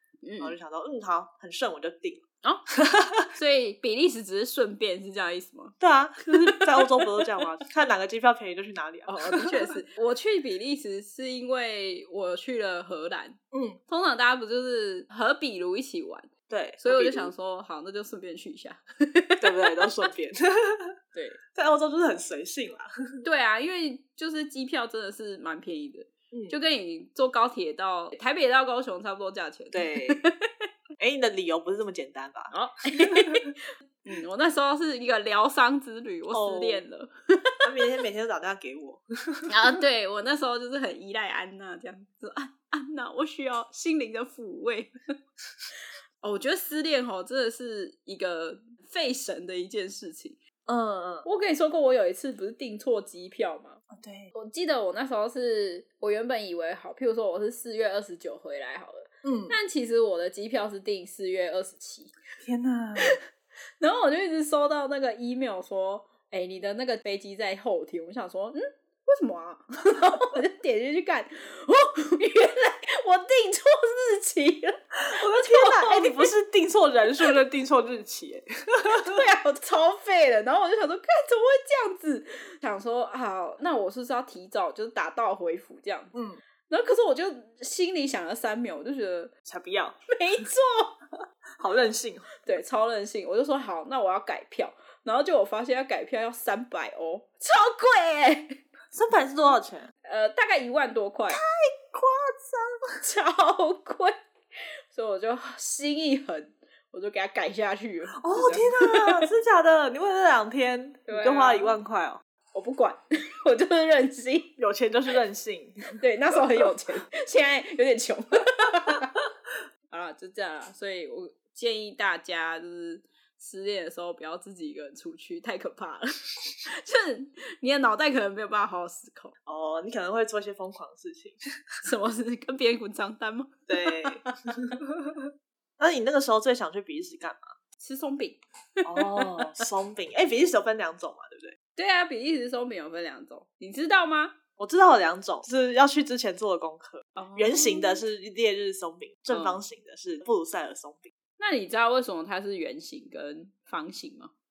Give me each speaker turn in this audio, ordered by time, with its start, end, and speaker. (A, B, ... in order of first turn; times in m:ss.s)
0:00.2-0:00.6 A
0:00.4-0:02.2 B
0:02.8-0:03.2 B
0:03.3-0:07.0 A
0:05.8-0:09.6 B
0:09.1-0:16.3 A
0:13.5-0:13.8 B
0:16.5-0:17.3 B
0:16.8-0:19.9 A
0:19.4-0:20.9 B
0:21.1-0:21.4 A
0:21.5-0:22.9 B
0:23.2-0:30.4 A
0:26.3-0:26.6 B
0:29.7-0:30.2 B
0:31.0-0:33.4 B
0:32.5-0:37.6 A
0:36.3-0:36.8 B
0:37.6-0:39.5 B
0:39.5-0:44.9 A
0:46.2-0:50.4 A
0:50.6-0:51.2 B
0:51.2-0:53.8 A
0:53.9-0:54.3 B
0:54.3-1:02.1 A
0:59.2-0:59.5 B
1:02.4-1:03.2 B
1:03.8-1:16.3 A
1:15.1-1:19.2 B
1:18.9-1:26.1 A
1:26.1-1:26.4 B
1:26.7-1:29.3 A
1:29.4-1:30.0 B
1:30.1-1:31.0 A
1:31.6-1:32.3 B
1:32.4-1:38.6 A
1:38.9-1:39.9 B
1:40.0-1:41.4 A
1:41.3-1:43.0 B
1:43.0-1:44.1 A
1:44.9-1:49.3 A
1:48.2-1:52.2 B
1:51.1-1:51.7 A
1:52.5-1:54.5 A
1:54.6-1:56.7 B
1:56.0-1:59.1 A
1:59.9-2:09.3 A
2:09.4-2:11.4 B
2:11.8-2:14.4 A
2:13.7-2:15.2 B
2:15.8-2:17.5 B
2:17.8-2:19.6 A
2:18.8-2:21.6 B
2:21.8-2:24.3 A
2:24.6-2:31.1 B
2:27.2-2:28.0 A
2:29.3-2:29.6 A
2:31.4-2:34.3 A